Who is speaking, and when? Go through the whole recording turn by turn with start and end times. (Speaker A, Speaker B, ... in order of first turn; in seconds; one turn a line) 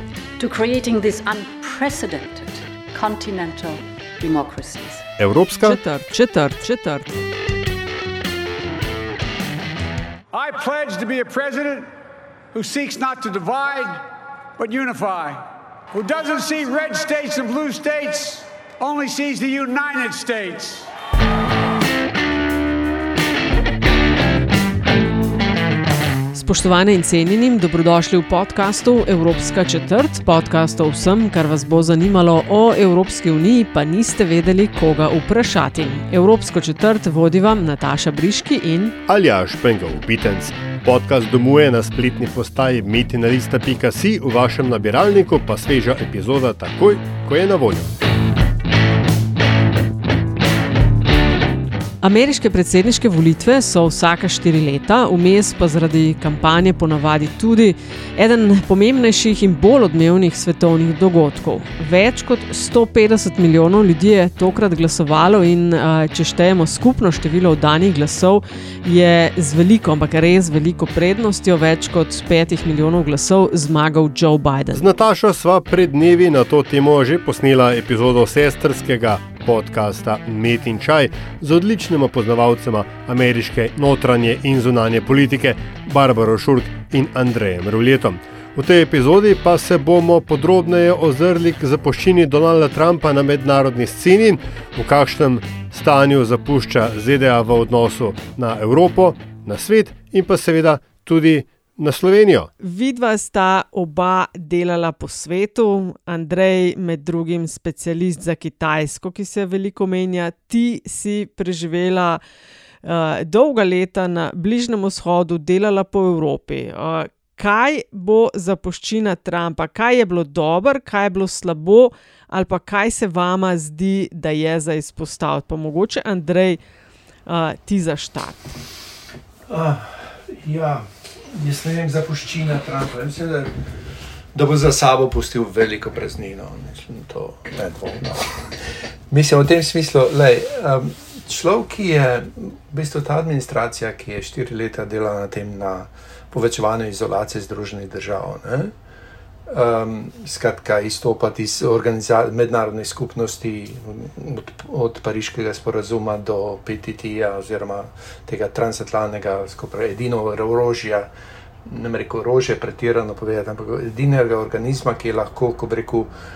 Speaker A: 0.4-5.0
Speaker B: 5.2-5.8
Speaker C: 5.5-7.1
Speaker D: 10.3-11.9
Speaker D: 12.5-14.0
Speaker D: 14.6-20.9
Speaker C: 26.3-39.0
Speaker B: 39.1-47.9
Speaker C: 52.0-74.8
Speaker B: 74.7-102.5
Speaker C: 102.6-112.2
Speaker C: 112.8-126.6
Speaker C: 127.2-128.5
Speaker E: 129.5-133.6
Speaker E: 134.3-148.7
Speaker E: 149.5-161.1
Speaker E: 161.6-166.1